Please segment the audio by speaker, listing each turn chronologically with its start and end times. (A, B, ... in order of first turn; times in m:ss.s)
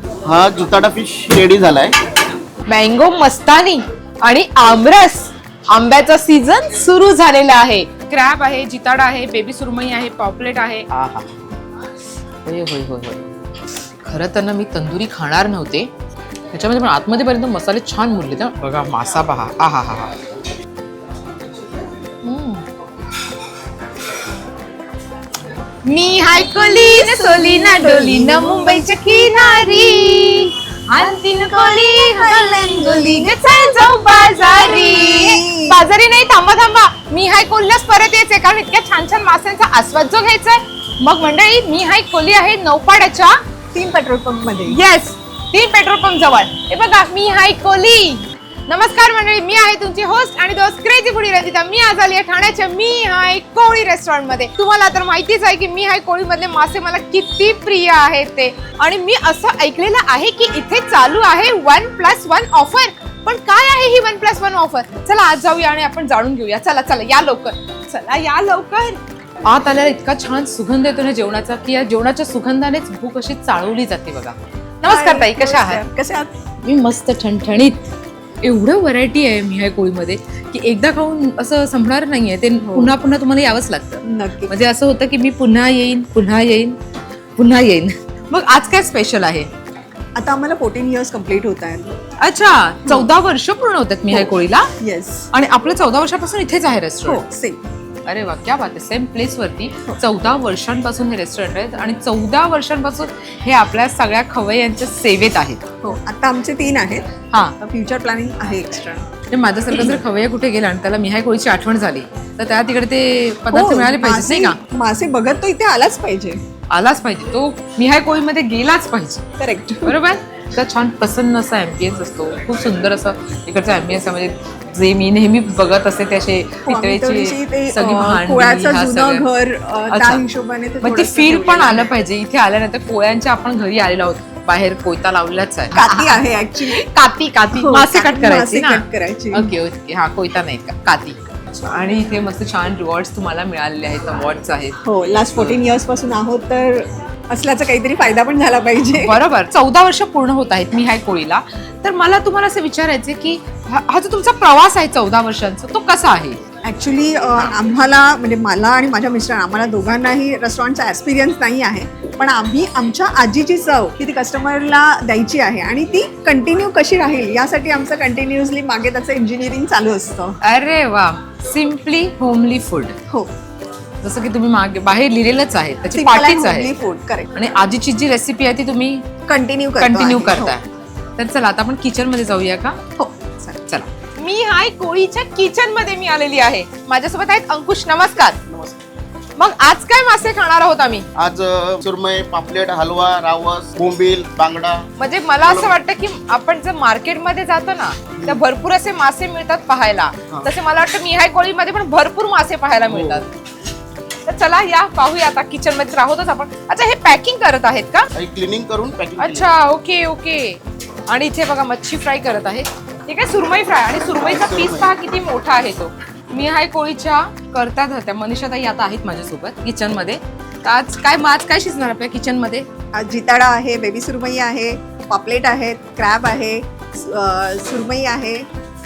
0:00.3-0:01.9 A
0:02.7-0:11.3 B
0:12.4-0:13.3 B
0:14.0-0:15.9 B
0:16.5-0:20.1 B
0:22.2-0:22.6 B
0:25.8-0:43.4 B
0:26.5-0:28.9 C
0:31.0-0:35.8 C
0:43.7-0:44.8 C
0:44.7-1:15.8 B
1:14.9-1:16.3 C
1:16.6-1:17.9 B
1:18.4-1:26.8 B
1:22.6-1:23.0 C
1:24.0-1:24.5 C
1:27.4-1:29.5 B
1:30.1-1:31.9 C
1:32.2-1:34.7 B
1:34.1-1:35.3 C
1:35.3-1:37.2 B
1:37.0-1:37.6 C
1:38.0-1:45.6 B
1:45.8-1:47.1 C
1:47.3-1:47.6 B
1:47.6-1:49.1 C
1:49.3-1:54.6 B
1:53.5-1:56.4 C
1:56.7-1:59.2 B
1:59.4-1:59.9 C
1:59.8-2:09.2 B
2:06.7-2:11.9 C
2:09.9-2:10.2 B
2:10.8-2:24.8 B
2:15.7-2:16.9 C
2:17.6-2:19.6 C
2:24.8-2:29.2 C
2:29.0-2:36.4 B
2:36.6-2:50.4 C
2:50.4-2:53.0 B
2:54.0-2:56.7 B
2:55.9-2:57.3 C
2:57.3-2:59.0 B
2:59.3-3:00.5 C
2:59.8-3:00.6 B
3:01.2-3:02.8 B
3:03.0-3:03.6 C
3:03.7-3:08.4 B
3:09.4-3:11.0 B
3:11.2-3:14.8 A
3:15.0-3:23.3 B
3:15.4-3:15.7 A
3:22.8-3:23.3 A
3:24.2-3:28.1 B
3:28.2-3:29.5 A
3:29.2-3:42.7 B
3:34.1-3:34.9 A
3:42.9-3:48.5 C